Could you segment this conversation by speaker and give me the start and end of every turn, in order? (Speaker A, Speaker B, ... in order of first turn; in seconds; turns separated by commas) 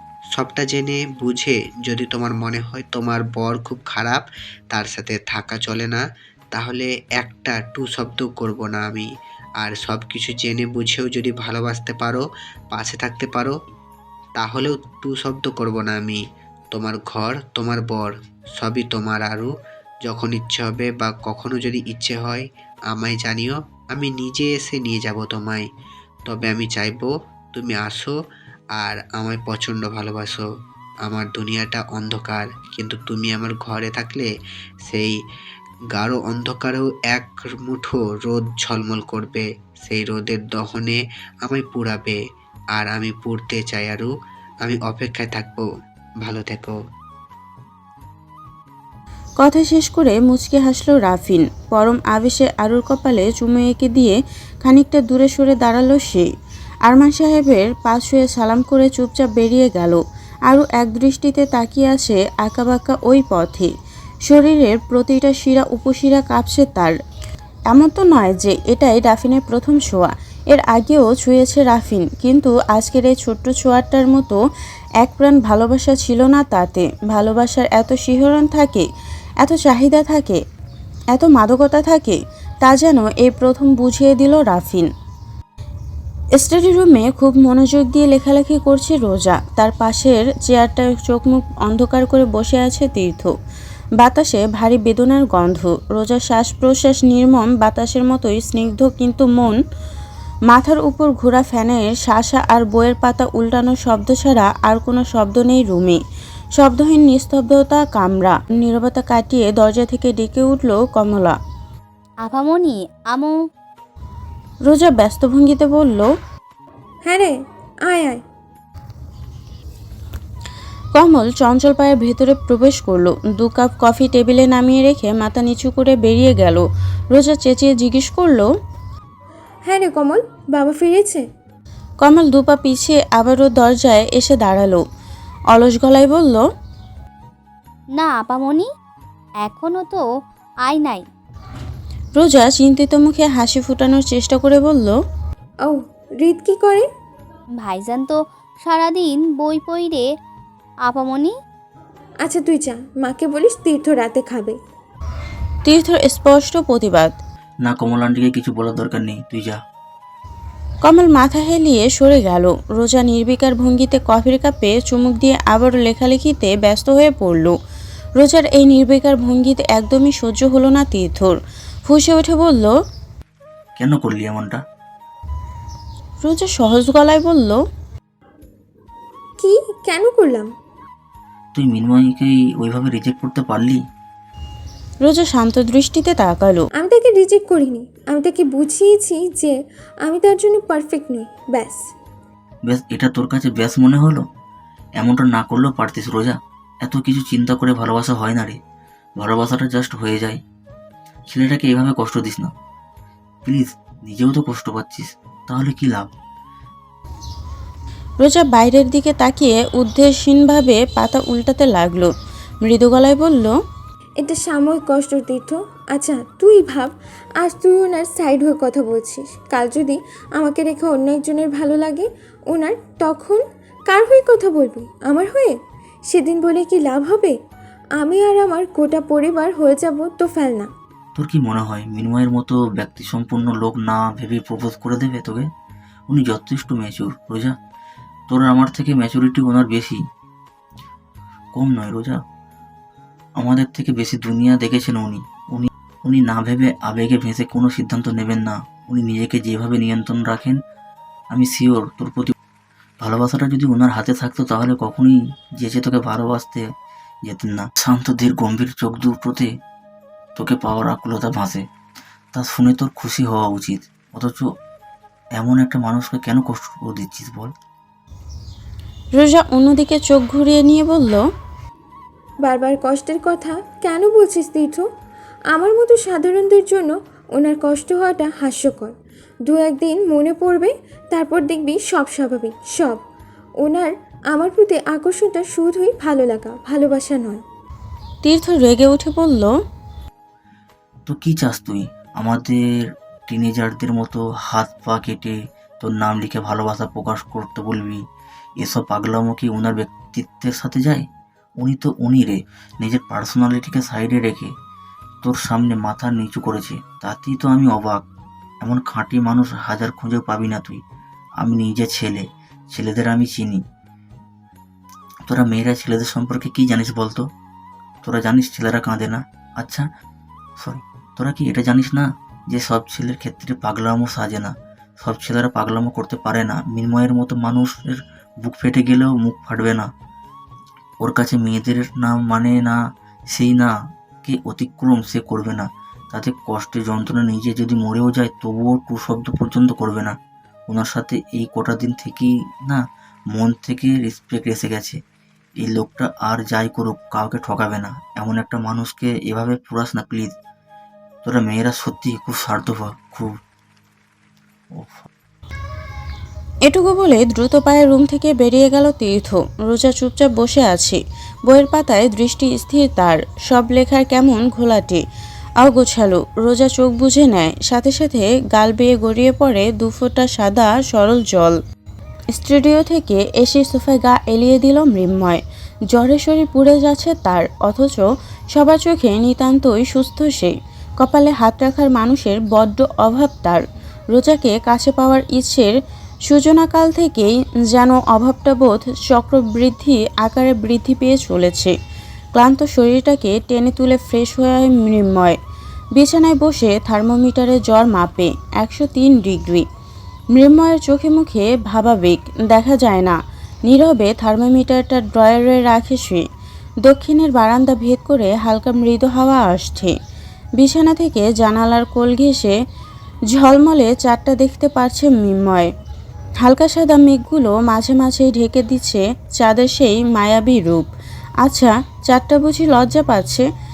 Speaker A: 0.3-6.0, Speaker A: 6.5-9.1, Speaker A: 9.6-13.5, Speaker A: 14.3-16.2, Speaker A: 16.7-19.5, Speaker A: 20.1-25.6, Speaker A: 26.3-28.1, Speaker A: 28.8-30.5, Speaker A: 31.1-34.3, Speaker A: 34.9-35.1, Speaker A: 36.0-42.2, Speaker A: 42.7-44.1, Speaker A: 44.6-45.6, Speaker A: 46.2-46.8, Speaker B: 49.4-56.3, Speaker B: 56.9-63.7, Speaker B: 64.2-66.9, Speaker B: 67.7-74.4, Speaker B: 75.0-78.8, Speaker B: 79.4-80.4, Speaker B: 81.1-84.9, Speaker B: 86.4-93.3, Speaker B: 94.0-99.5, Speaker B: 100.5-106.0, Speaker B: 106.5-111.3, Speaker C: 112.2-113.3, Speaker B: 114.7-116.1, Speaker D: 117.0-118.2, Speaker B: 120.9-128.5, Speaker D: 129.7-131.2, Speaker B: 132.0-134.8, Speaker B: 135.5-136.4, Speaker C: 137.9-138.7, Speaker C: 139.4-140.0, Speaker C: 140.6-141.0, Speaker B: 142.2-144.9, Speaker D: 145.6-146.8, Speaker C: 147.6-150.0, Speaker C: 150.8-151.3, Speaker D: 152.2-154.6, Speaker B: 155.7-157.2, Speaker E: 157.6-159.6, Speaker B: 160.8-167.5, Speaker B: 168.2-172.7, Speaker E: 173.8-174.6, Speaker B: 176.2-177.6, Speaker D: 179.4-180.5, Speaker E: 181.5-183.8, Speaker B: 185.0-186.6, Speaker D: 186.8-191.8, Speaker E: 192.6-194.2, Speaker E: 195.0-198.6, Speaker E: 199.2-200.4, Speaker E: 201.3-202.5, Speaker E: 203.4-206.1, Speaker B: 208.2-212.1, Speaker B: 212.6-213.5, Speaker D: 214.2-225.5, Speaker D: 226.1-227.3, Speaker D: 228.0-230.7, Speaker E: 231.2-235.5, Speaker E: 236.1-237.5, Speaker E: 238.3-240.0, Speaker E: 241.5-242.2, Speaker E: 243.4-250.6, Speaker E: 251.3-252.3, Speaker E: 253.0-256.6, Speaker E: 257.2-259.5, Speaker E: 260.4-261.6, Speaker E: 262.3-264.4, Speaker E: 265.3-267.5, Speaker B: 269.1-271.2, Speaker D: 272.4-274.8, Speaker D: 275.5-278.9, Speaker D: 279.4-283.0, Speaker D: 283.6-287.4, Speaker B: 288.2-289.5, Speaker E: 291.1-298.0, Speaker E: 298.6-301.0, Speaker E: 301.6-304.5, Speaker E: 305.2-308.0, Speaker E: 308.6-310.8, Speaker E: 311.4-313.6, Speaker E: 315.2-317.2, Speaker E: 318.0-319.9, Speaker E: 320.6-329.9, Speaker E: 331.0-332.7, Speaker E: 333.3-333.7, Speaker E: 334.2-340.1, Speaker E: 340.7-342.8, Speaker E: 343.3-345.0, Speaker E: 345.6-350.3, Speaker E: 351.2-353.3, Speaker E: 354.7-355.1, Speaker B: 356.6-365.0, Speaker B: 365.6-371.6, Speaker B: 372.3-383.6, Speaker B: 384.1-385.7, Speaker B: 386.3-391.7, Speaker B: 392.3-395.4, Speaker B: 395.9-399.6, Speaker B: 400.3-406.2, Speaker B: 406.8-409.9, Speaker B: 410.6-412.6, Speaker B: 413.3-415.7, Speaker B: 416.4-420.9, Speaker B: 421.4-423.4